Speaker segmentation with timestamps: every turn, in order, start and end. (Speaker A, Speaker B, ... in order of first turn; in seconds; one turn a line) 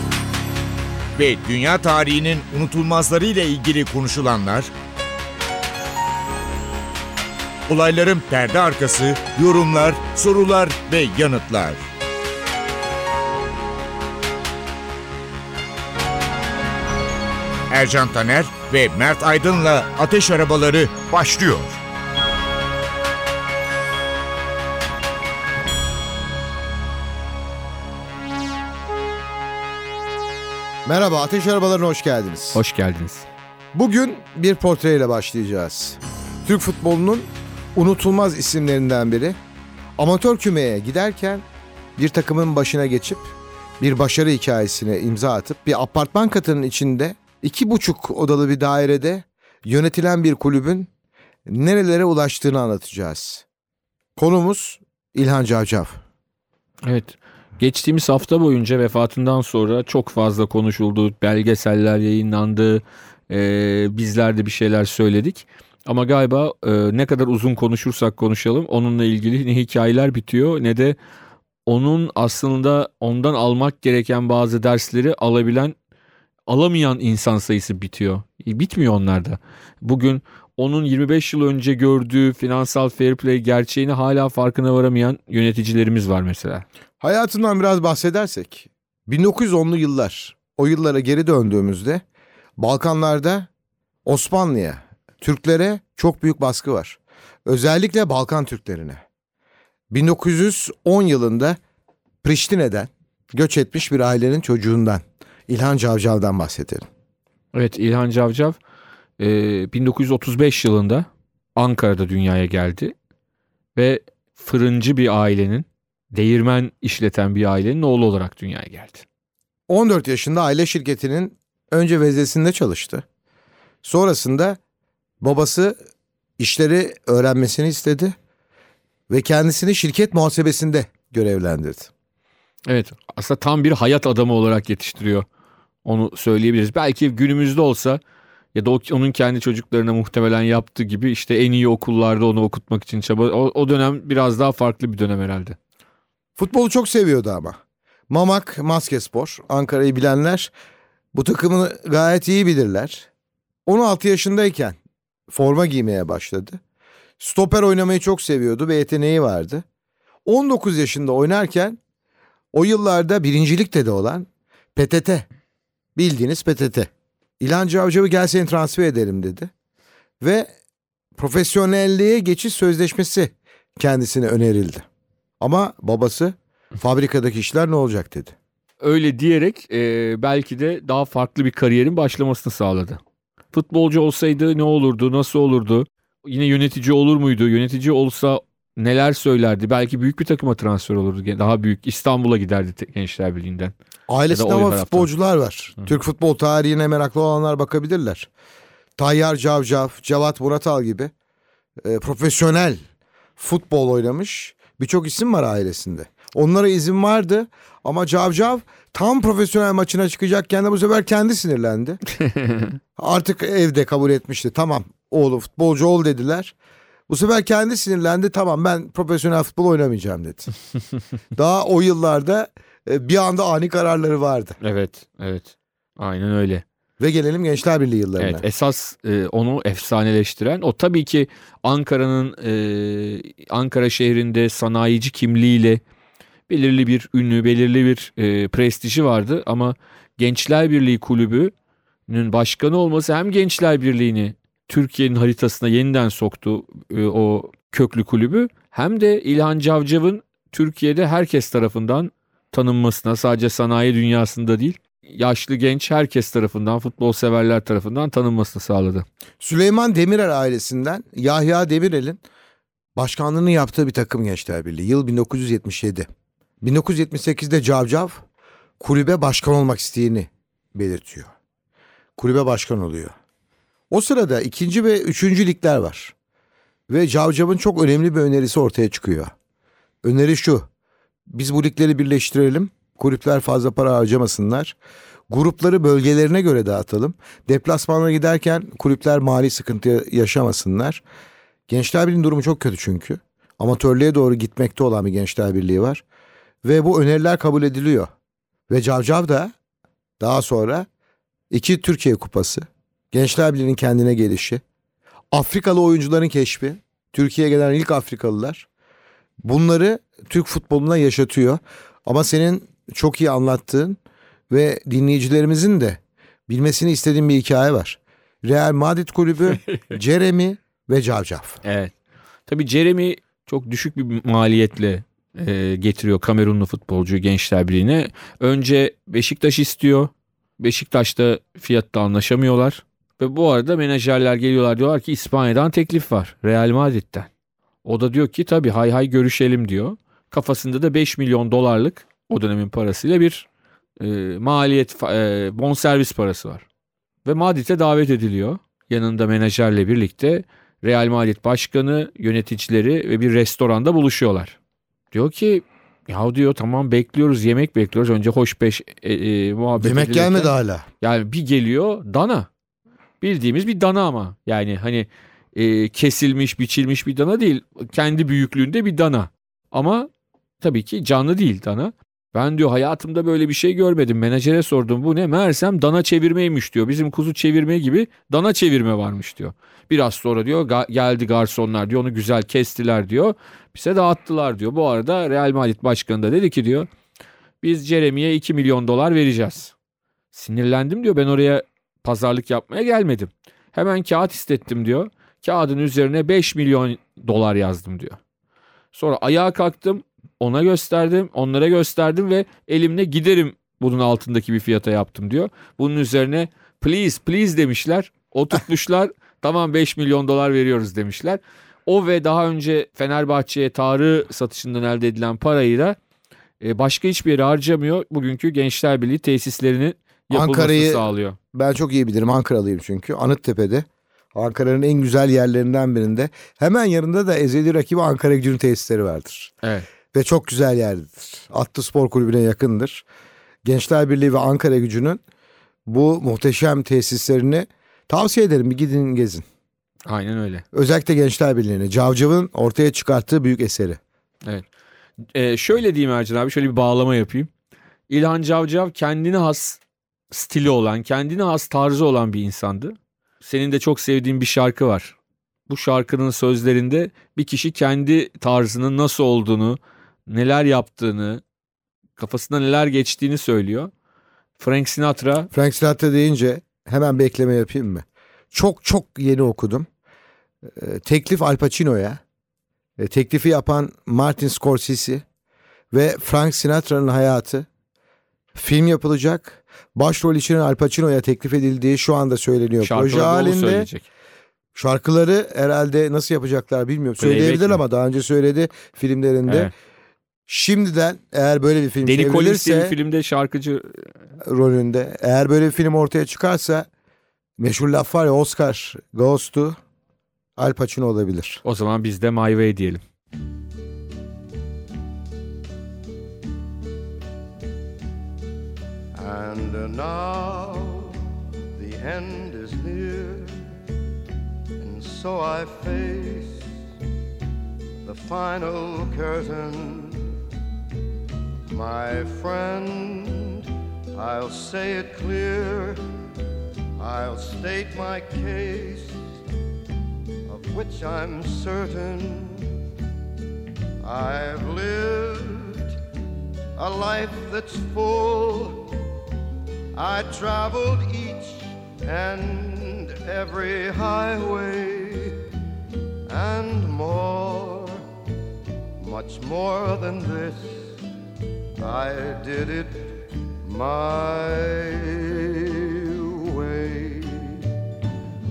Speaker A: 1.1-4.7
Speaker A: 7.7-11.8
Speaker A: 17.7-21.8
Speaker B: 30.8-32.6
Speaker C: 32.5-33.3
Speaker B: 33.7-39.4
Speaker B: 40.0-41.4
Speaker B: 42.0-50.9
Speaker B: 51.5-53.4
Speaker B: 54.2-56.0
Speaker C: 56.8-71.0
Speaker C: 71.7-75.8
Speaker C: 76.5-86.6
Speaker B: 87.0-92.0
Speaker B: 92.6-93.5
Speaker B: 94.0-99.0
Speaker B: 99.9-101.6
Speaker B: 102.2-106.9
Speaker C: 107.5-108.6
Speaker C: 109.2-112.9
Speaker C: 113.8-119.0
Speaker B: 119.7-123.0
Speaker B: 123.8-124.6
Speaker B: 125.2-125.8
Speaker B: 126.4-128.2
Speaker B: 129.1-131.9
Speaker C: 132.7-135.2
Speaker C: 135.8-138.0
Speaker C: 138.5-145.6
Speaker B: 146.4-150.5
Speaker B: 151.1-153.1
Speaker B: 153.7-154.8
Speaker B: 155.3-156.6
Speaker B: 157.2-159.6
Speaker B: 160.2-161.8
Speaker B: 162.5-165.2
Speaker B: 166.0-169.5
Speaker B: 170.2-170.5
Speaker B: 171.2-174.8
Speaker B: 175.4-178.3
Speaker C: 178.8-183.0
Speaker C: 183.5-193.7
Speaker B: 194.1-198.3
Speaker C: 194.3-195.1
Speaker B: 199.0-201.1
Speaker B: 201.8-202.8
Speaker B: 203.4-212.0
Speaker C: 212.2-212.8
Speaker B: 213.0-216.5
Speaker B: 217.1-220.5
Speaker B: 221.3-224.6
Speaker C: 224.6-226.6
Speaker B: 227.0-228.4
Speaker C: 228.2-235.8
Speaker C: 236.5-241.5
Speaker C: 242.1-259.0
Speaker B: 259.4-262.2
Speaker B: 263.0-266.1
Speaker B: 266.6-268.2
Speaker B: 268.8-271.3
Speaker B: 272.2-273.1
Speaker B: 273.9-276.1
Speaker B: 276.9-279.3
Speaker B: 280.0-280.7
Speaker B: 281.3-284.8
Speaker B: 285.3-291.0
Speaker B: 291.7-296.0
Speaker B: 296.6-298.1
Speaker B: 298.7-299.5
Speaker B: 300.2-300.9
Speaker B: 301.5-304.6
Speaker B: 305.3-308.7
Speaker B: 309.4-314.0
Speaker B: 314.5-321.6
Speaker C: 321.6-321.9
Speaker C: 322.5-337.3
Speaker C: 337.8-343.5
Speaker C: 344.0-346.6
Speaker C: 347.2-354.6
Speaker C: 355.1-362.5
Speaker B: 359.8-360.9
Speaker C: 363.2-370.1
Speaker C: 370.6-386.9
Speaker C: 387.6-389.7
Speaker C: 390.3-398.2
Speaker C: 398.9-416.0
Speaker C: 416.6-421.4
Speaker B: 420.3-429.5
Speaker B: 430.1-433.0
Speaker B: 433.6-435.2
Speaker B: 435.9-439.4
Speaker C: 440.1-440.6
Speaker B: 440.7-444.0
Speaker C: 445.3-447.5
Speaker C: 448.1-449.8
Speaker C: 450.3-455.1
Speaker C: 455.7-461.4
Speaker C: 462.2-463.9
Speaker C: 464.6-465.5
Speaker B: 465.5-469.9
Speaker B: 470.6-472.2
Speaker B: 473.0-475.2
Speaker B: 475.9-477.7
Speaker B: 478.5-483.9
Speaker C: 482.8-484.1
Speaker B: 484.8-489.7
Speaker C: 487.2-487.8
Speaker C: 489.5-489.7
Speaker B: 490.5-492.9
Speaker C: 492.0-494.1
Speaker B: 494.4-496.9
Speaker B: 497.6-499.8
Speaker B: 500.6-501.6
Speaker C: 501.6-503.0
Speaker D: 509.1-511.2
Speaker D: 511.8-513.7
Speaker D: 514.8-516.6
Speaker D: 518.0-520.4
Speaker D: 521.7-526.0
Speaker D: 527.0-529.2
Speaker D: 530.5-532.8
Speaker D: 534.0-535.9
Speaker D: 536.8-538.9
Speaker D: 539.9-545.4
Speaker D: 546.3-548.0
Speaker D: 549.0-550.9
Speaker D: 551.8-557.7